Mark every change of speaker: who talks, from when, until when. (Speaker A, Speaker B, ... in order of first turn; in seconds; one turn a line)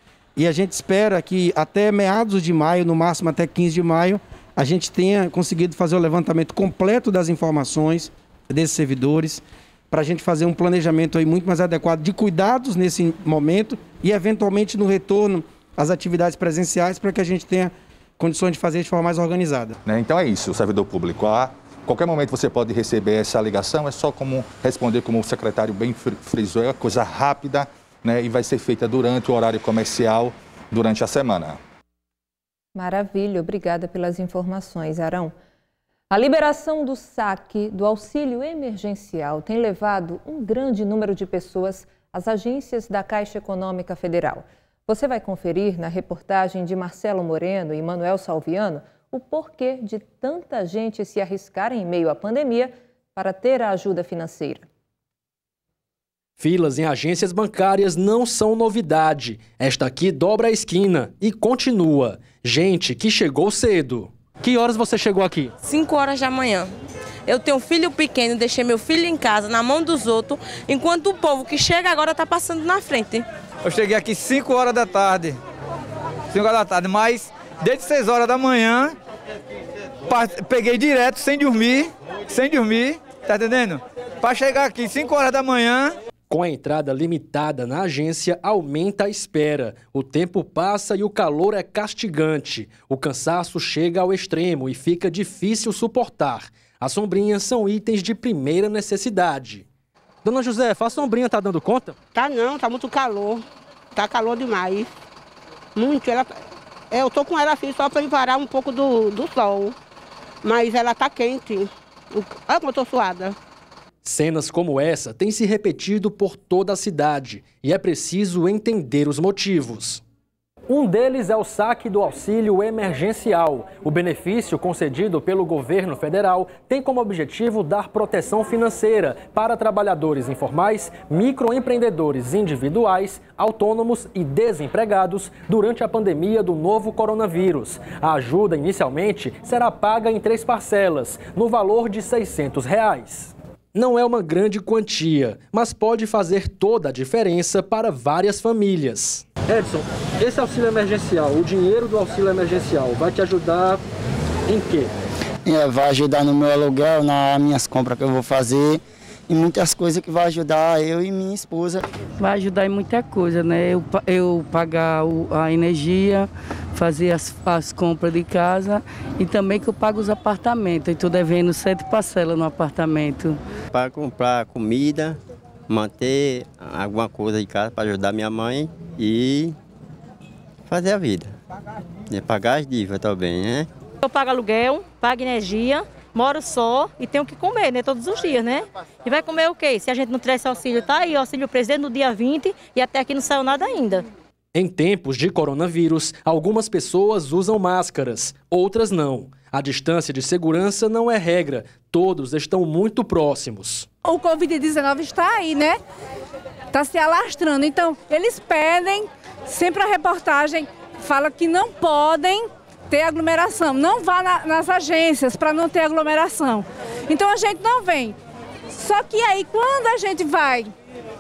Speaker A: 0.4-19.8
Speaker B: 19.9-31.6
Speaker C: 32.8-35.3
Speaker C: 36.1-54.7
Speaker D: 56.4-65.5
Speaker E: 65.6-66.7
Speaker E: 67.3-73.2
Speaker F: 73.7-75.4
Speaker F: 76.3-78.9
Speaker F: 80.1-86.0
Speaker D: 86.3-99.7
Speaker D: 100.2-102.0
Speaker G: 102.1-103.4
Speaker G: 104.0-104.9
Speaker G: 105.8-106.3
Speaker G: 106.9-109.8
Speaker G: 110.4-113.4
Speaker D: 114.0-120.0
Speaker D: 120.7-153.8
Speaker D: 154.5-154.9
Speaker H: 155.5-158.8
Speaker H: 159.3-161.8
Speaker I: 162.2-166.2
Speaker I: 166.8-173.3
Speaker J: 173.7-179.6
Speaker J: 180.7-181.3
Speaker J: 182.1-183.7
Speaker K: 184.0-194.1
Speaker D: 194.5-203.9
Speaker L: 204.1-205.8
Speaker L: 206.7-218.2
Speaker L: 218.7-220.7